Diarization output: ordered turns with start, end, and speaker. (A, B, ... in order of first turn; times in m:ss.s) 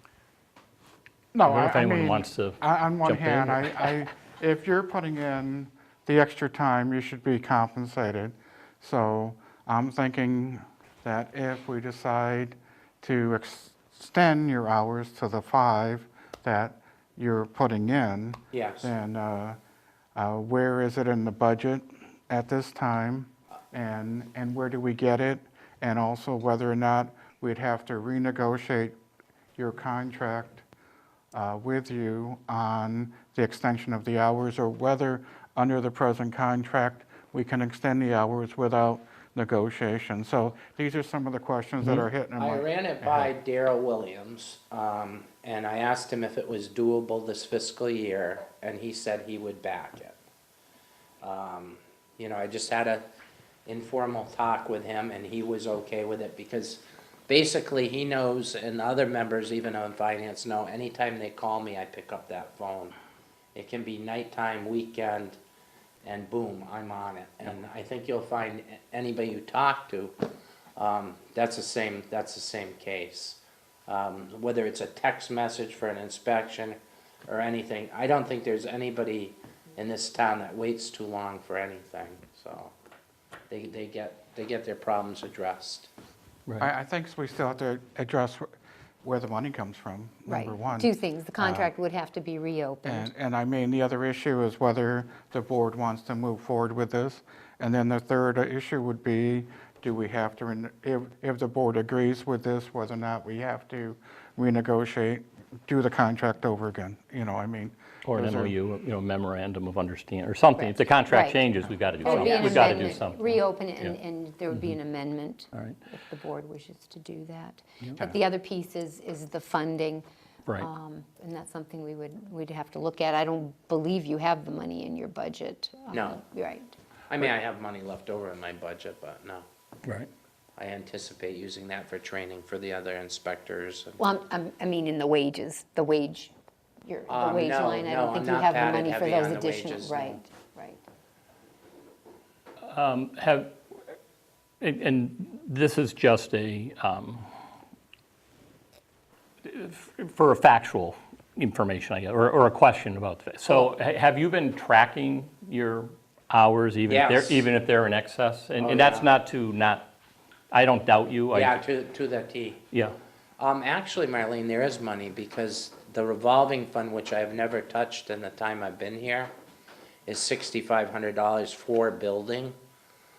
0:01.3-0:19.6 A
0:01.4-0:04.0 B
0:18.5-0:18.9 C
0:20.1-0:28.9 A
0:29.6-0:30.6 A
0:31.3-0:43.3 A
0:42.4-0:50.2 C
0:51.2-0:53.0 C
0:53.6-1:02.9 C
1:03.5-1:05.4 C
1:06.0-1:10.2 C
1:10.8-1:22.7 C
1:23.5-1:25.9 C
1:26.6-1:28.5 A
1:29.0-1:31.7 A
1:30.3-1:33.1 D
1:32.8-1:48.5 A
1:48.0-1:54.0 B
1:50.6-2:00.0 D
1:52.0-1:52.5 A
1:54.5-1:54.8 B
2:00.6-2:06.8 D
2:05.9-2:06.2 C
2:07.1-2:09.4 C
2:10.6-2:14.0 C
2:14.0-2:16.3 D
2:16.8-2:20.8 D
2:17.1-2:20.2 C
2:22.6-2:23.5 B
2:24.6-2:27.2 B
2:29.4-2:39.9 B
2:36.9-2:37.4 C
2:38.6-2:39.1 C
2:40.5-2:41.6 B
2:41.3-2:42.6 C
2:43.4-2:49.3 C
2:50.0-2:52.6 C